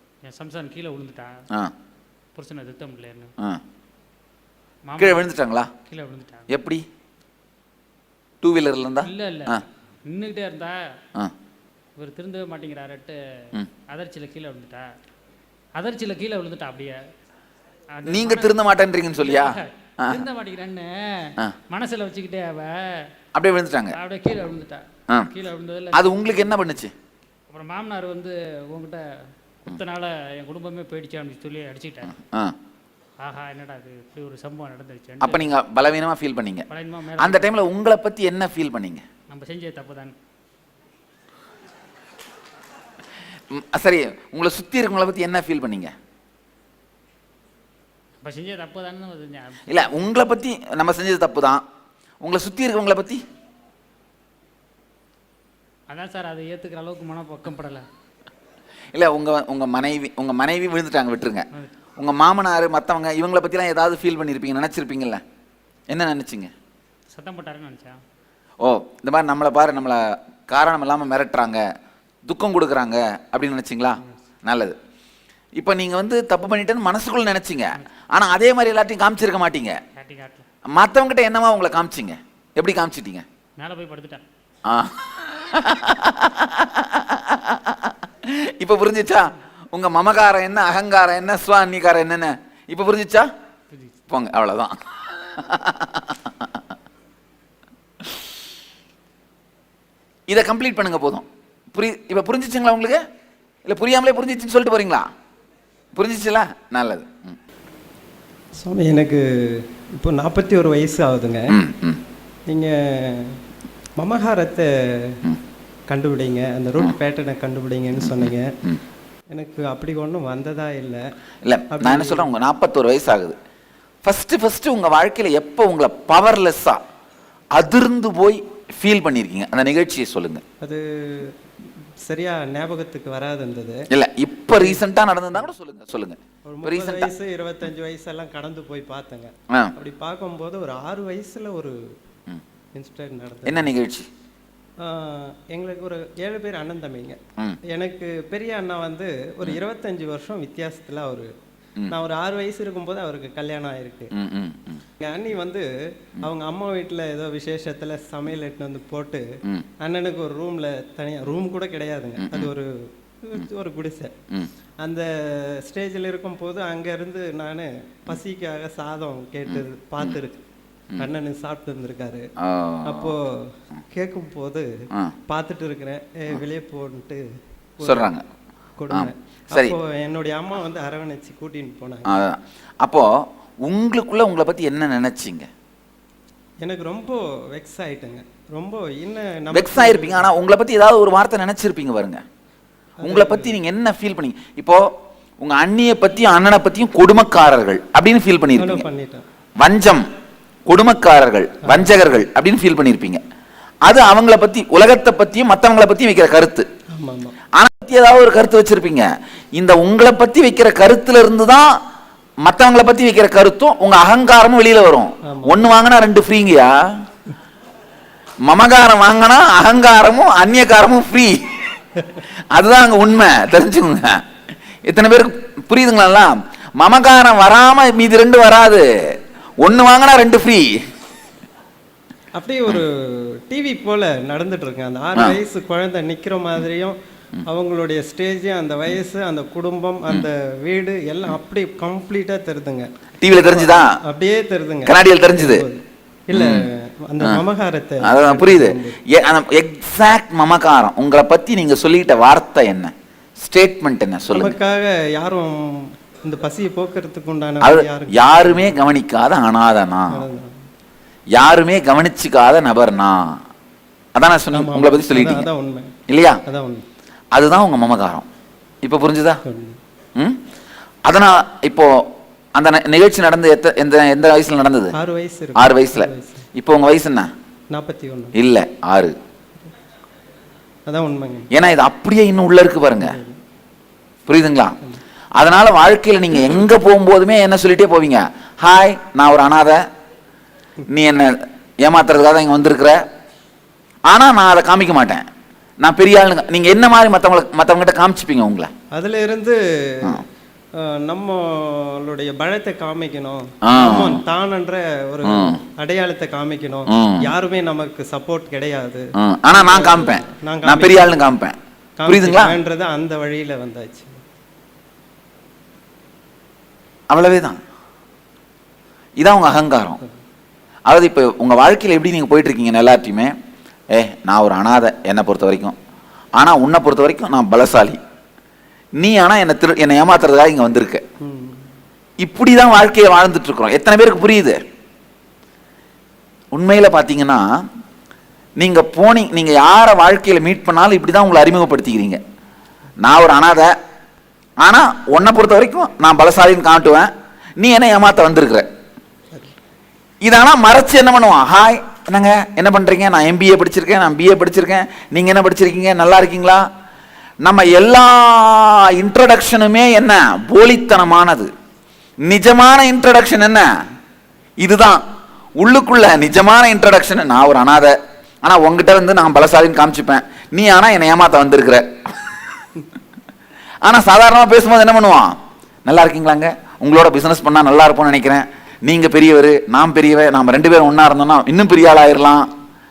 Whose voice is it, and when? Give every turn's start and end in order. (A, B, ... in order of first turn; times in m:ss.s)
0:00.2-0:01.4 A
0:02.3-0:03.3 A
0:04.9-0:05.3 A
0:05.0-0:05.7 B
0:05.9-0:06.5 A
0:06.5-0:06.8 B
0:08.4-0:09.6 B
0:09.0-0:10.8 A
0:12.0-0:14.8 A
0:15.8-0:17.0 A
0:17.9-0:18.6 A
0:18.0-0:20.2 B
0:19.2-0:23.1 A
0:23.3-0:24.0 B
0:23.9-0:26.7 A
0:25.9-0:26.9 B
0:27.5-0:29.0 A
0:29.6-0:32.1 A
0:32.1-0:32.6 B
0:33.2-0:35.5 A
0:35.2-0:36.7 B
0:36.7-0:37.6 A
0:37.2-0:39.0 B
0:39.3-0:40.1 A
0:43.5-0:45.9 B
0:48.2-0:50.1 A
0:49.7-0:51.6 B
0:52.2-0:53.2 B
0:55.9-0:57.8 A
0:58.9-1:05.2 B
1:05.9-1:06.5 B
1:07.1-1:08.0 A
1:08.6-1:11.6 B
1:12.3-1:14.8 B
1:15.6-1:19.8 B
1:20.0-1:20.4 A
1:20.7-1:23.2 B
1:23.6-1:24.2 A
1:24.6-1:33.3 B
1:33.7-1:34.0 A
1:34.1-1:36.6 B
1:40.3-1:43.0 B
1:43.6-1:45.1 B
1:45.9-1:47.4 B
1:48.6-1:51.5 C
1:51.5-1:52.0 B
1:52.5-1:53.4 C
1:54.0-1:55.2 C
1:55.9-1:58.5 C
1:58.0-1:58.8 B
1:59.3-2:01.0 C
2:01.4-2:03.4 B
2:01.7-2:02.3 C
2:04.0-2:06.8 B
2:07.6-2:10.4 B
2:10.6-2:13.8 C
2:13.9-2:17.1 B
2:14.5-2:14.8 C
2:16.4-2:21.8 C
2:22.7-2:23.7 C
2:23.4-2:24.1 B
2:24.8-2:31.3 C
2:31.9-2:34.1 C
2:34.1-2:34.8 B
2:35.0-2:35.6 C
2:36.2-2:39.2 C
2:39.8-2:44.1 C
2:42.2-2:42.5 B
2:44.8-2:50.4 C
2:49.5-2:50.2 B
2:51.0-2:52.3 C
2:52.4-2:53.1 B
2:52.8-2:54.7 C
2:55.3-2:57.2 C
2:57.8-2:58.1 C
2:57.8-2:58.2 B
2:58.8-3:02.1 C
2:58.9-2:59.7 B
3:02.0-3:03.1 B
3:03.6-3:05.5 B
3:06.6-3:10.3 C
3:09.5-3:12.2 B
3:13.0-3:13.6 C
3:13.0-3:14.8 B
3:15.4-3:18.8 B
3:18.6-3:19.2 C
3:19.6-3:20.0 B
3:20.7-3:23.2 B
3:21.6-3:21.9 C
3:23.9-3:26.7 B
3:26.9-3:27.4 C
3:27.6-3:31.7 B
3:32.4-3:36.8 B
3:35.2-3:35.7 C
3:38.4-3:41.8 B
3:42.5-3:44.2 B
3:44.8-3:48.9 B
3:49.6-3:50.7 B
3:52.4-4:09.0 C
4:03.2-4:03.9 B
4:04.8-4:05.6 B
4:06.3-4:06.6 B
4:08.0-4:14.6 B
4:14.3-4:18.8 C
4:17.6-4:20.2 B
4:20.1-4:20.6 C
4:21.3-4:23.4 B
4:24.1-4:25.5 B
4:24.5-4:25.9 C
4:26.1-4:26.4 B
4:26.4-4:26.8 C
4:27.3-4:28.2 B
4:28.8-4:29.4 B
4:29.4-4:29.8 C
4:31.1-4:31.9 B
4:32.6-4:34.9 B
4:34.9-4:36.4 C
4:35.6-4:37.3 B
4:37.7-4:38.3 C
4:38.3-4:39.1 B
4:40.8-4:41.5 C
4:41.5-4:43.1 B
4:43.0-4:43.4 C
4:44.3-4:44.8 B
4:45.4-4:49.8 B
4:50.9-4:53.0 B
4:54.1-4:55.2 B
4:55.8-4:58.7 B
4:58.9-5:00.2 C
5:00.8-5:11.3 C
5:03.6-5:04.2 B
5:05.2-5:05.6 B
5:06.9-5:07.3 B
5:09.2-5:12.6 B
5:12.0-5:14.2 C
5:17.1-5:17.6 B
5:19.2-5:20.0 B
5:20.9-5:23.3 B
5:23.9-5:25.8 B
5:26.4-5:28.0 B
5:29.0-5:31.0 B
5:31.2-5:31.6 C
5:32.2-5:34.6 B
5:36.5-5:37.4 B
5:38.6-5:42.2 B
5:43.0-5:43.7 B
5:44.6-5:48.6 B
5:50.2-5:56.6 B
5:57.4-6:01.5 B
6:02.2-6:03.7 B
6:04.6-6:05.0 B
6:05.6-6:12.4 B
6:13.8-6:22.5 B